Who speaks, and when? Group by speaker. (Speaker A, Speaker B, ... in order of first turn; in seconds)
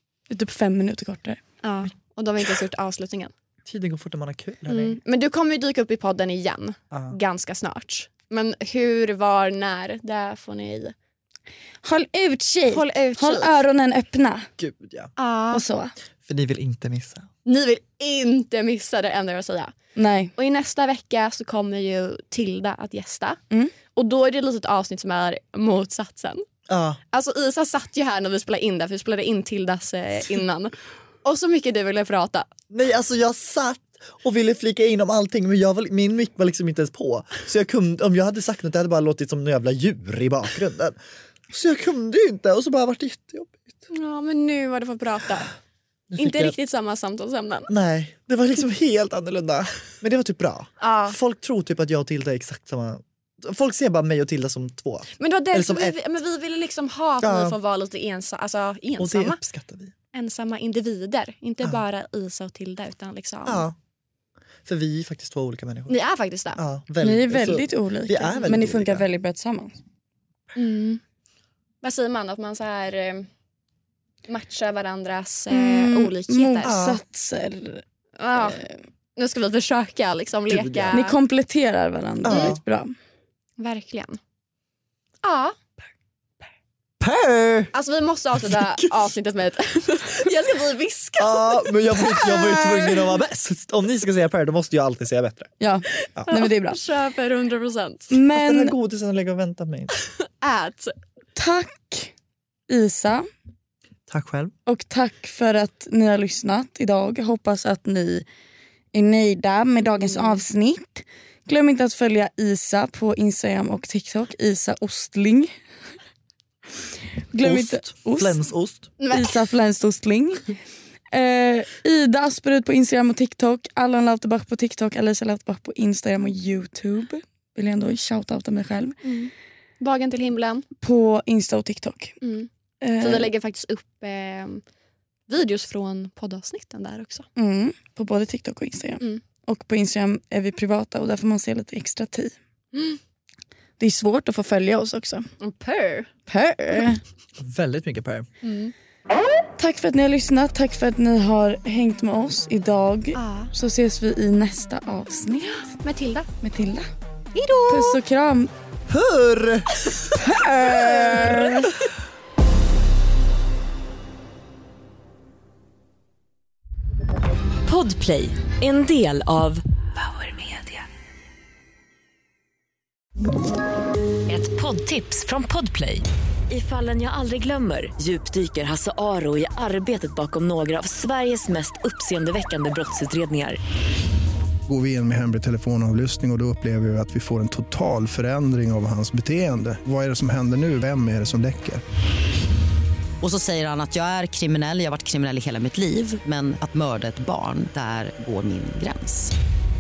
Speaker A: 0.3-1.4, 11.8-14.5, 15.5-15.9, 19.9-20.3, 67.0-69.8, 75.5-77.8, 78.3-78.8, 80.9-82.9, 95.6-96.8, 98.1-98.7, 101.3-102.1, 102.7-103.2, 104.7-108.2, 108.9-115.5, 117.3-118.4, 119.1-120.5, 121.1-129.0, 130.8-132.2, 132.8-133.3, 137.3-142.3, 143.8-145.3, 146.3-147.0, 149.6-155.7, 156.4-156.9, 157.7-158.5, 160.1-161.7
Speaker B: 1.6-3.3, 4.7-10.9, 12.7-13.6, 15.2-15.6, 17.4-19.7, 20.4-23.4, 23.9-26.4, 27.1-32.5, 43.9-45.5, 46.1-47.7, 50.8-51.2, 55.2-59.4, 60.1-63.6, 65.9-66.6, 70.5-71.0, 71.8-73.3, 74.3-76.7, 78.2-78.6, 79.2-81.1, 82.3-82.6, 83.6-84.2, 85.2-85.5, 87.7-93.0, 96.2-98.1, 100.2-100.9, 110.0-110.4, 119.0-119.3, 129.0-130.7, 132.2-132.5, 133.0-134.6, 135.3-137.3, 142.7-143.0, 145.4-146.1, 148.4-148.7, 153.1-153.5, 155.4-156.3, 157.3-158.0, 160.7-161.5
Speaker C: 3.6-5.0, 6.9-7.2, 14.6-15.1, 16.2-17.3, 26.7-27.0, 32.7-41.0, 41.5-43.8, 46.1-46.5, 47.7-56.0, 57.2-57.6, 59.0-59.9, 63.4-63.8, 64.6-66.0, 66.5-69.0, 76.6-77.0, 80.5-81.0, 82.2-82.6, 87.0-87.7, 88.4-88.9, 91.2-95.5, 98.3-99.9, 104.1-104.5, 117.4-118.9, 147.4-148.3, 158.9-159.8
Speaker D: 167.6-170.8, 174.3-183.6
Speaker E: 184.7-191.8
Speaker F: 193.2-199.3